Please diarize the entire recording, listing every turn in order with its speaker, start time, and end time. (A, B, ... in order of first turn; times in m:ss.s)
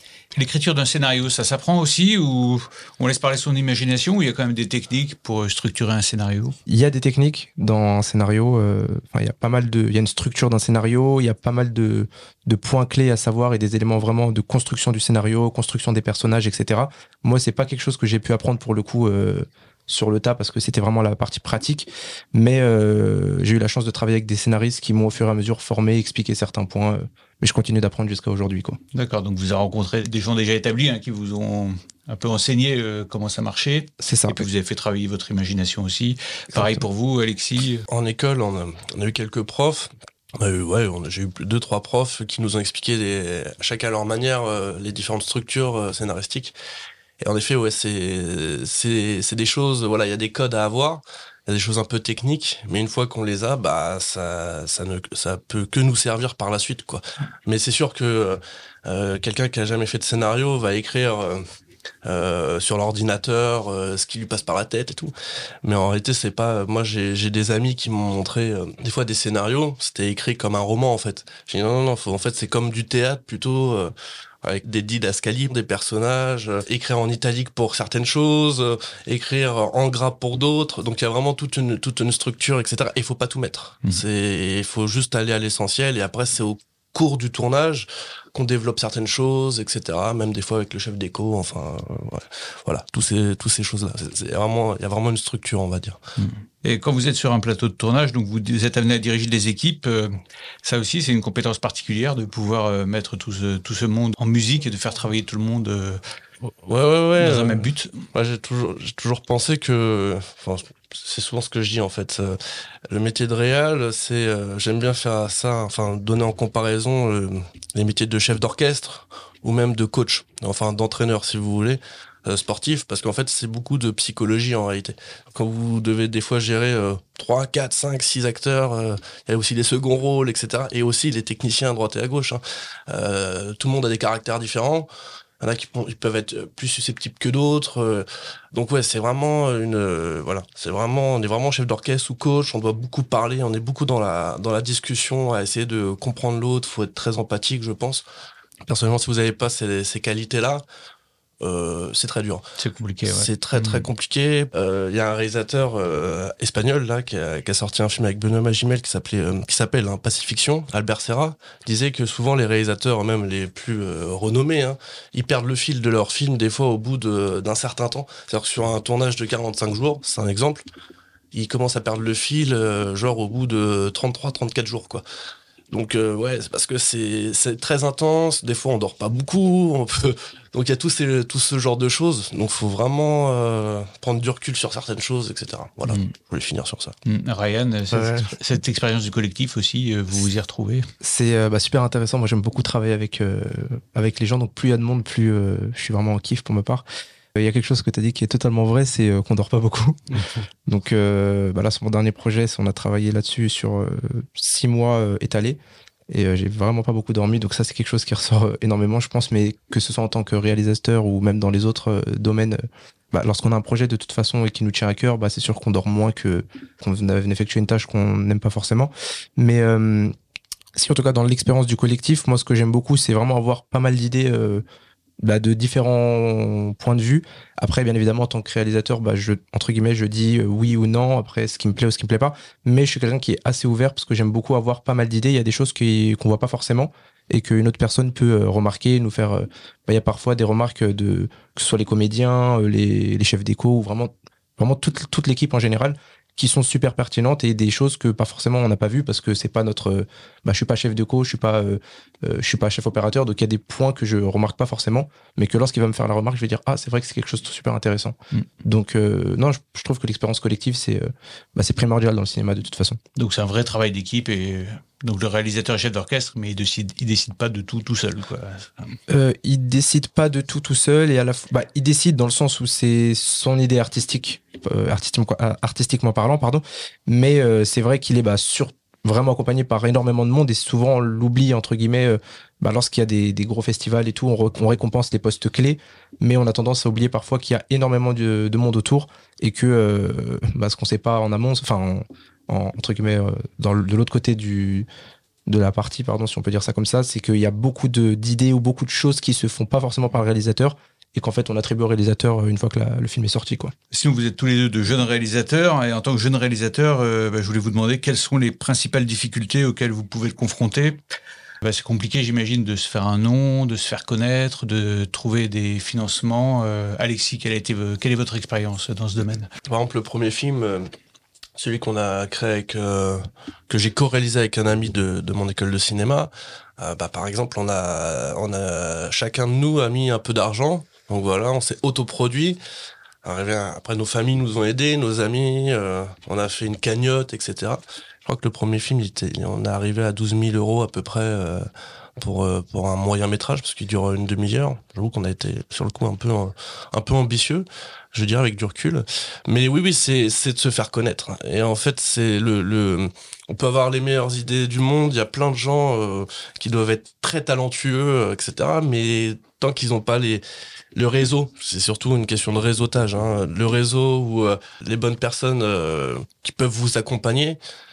0:00.3-0:06.6 A
0:06.7-0:28.8 B
0:28.9-0:37.8 A
0:34.0-0:34.4 B
0:36.5-0:36.8 B
0:37.9-0:46.5 C
0:47.2-1:01.4 C
1:02.0-1:05.1 C
1:05.6-1:36.0 C
1:36.2-1:46.0 A
1:46.4-2:14.9 C
1:47.2-1:48.0 A
2:15.4-2:28.0 C
2:28.6-2:30.6 C
2:31.4-2:32.4 C
2:32.6-2:33.9 A
2:33.1-2:50.6 C
2:51.3-2:55.0 C
2:55.7-3:06.9 C
3:07.0-3:10.9 A
3:07.9-3:08.3 B
3:11.0-3:16.8 B
3:17.3-3:40.1 B
3:40.7-3:44.6 B
3:45.2-4:23.0 B
4:23.2-4:29.0 A
4:29.1-4:54.9 B
4:55.5-5:03.7 B
5:03.9-5:11.0 A
5:11.6-5:19.5 A
5:19.7-5:20.9 C
5:21.6-5:32.6 C
5:33.2-6:00.4 C
6:00.9-6:07.6 C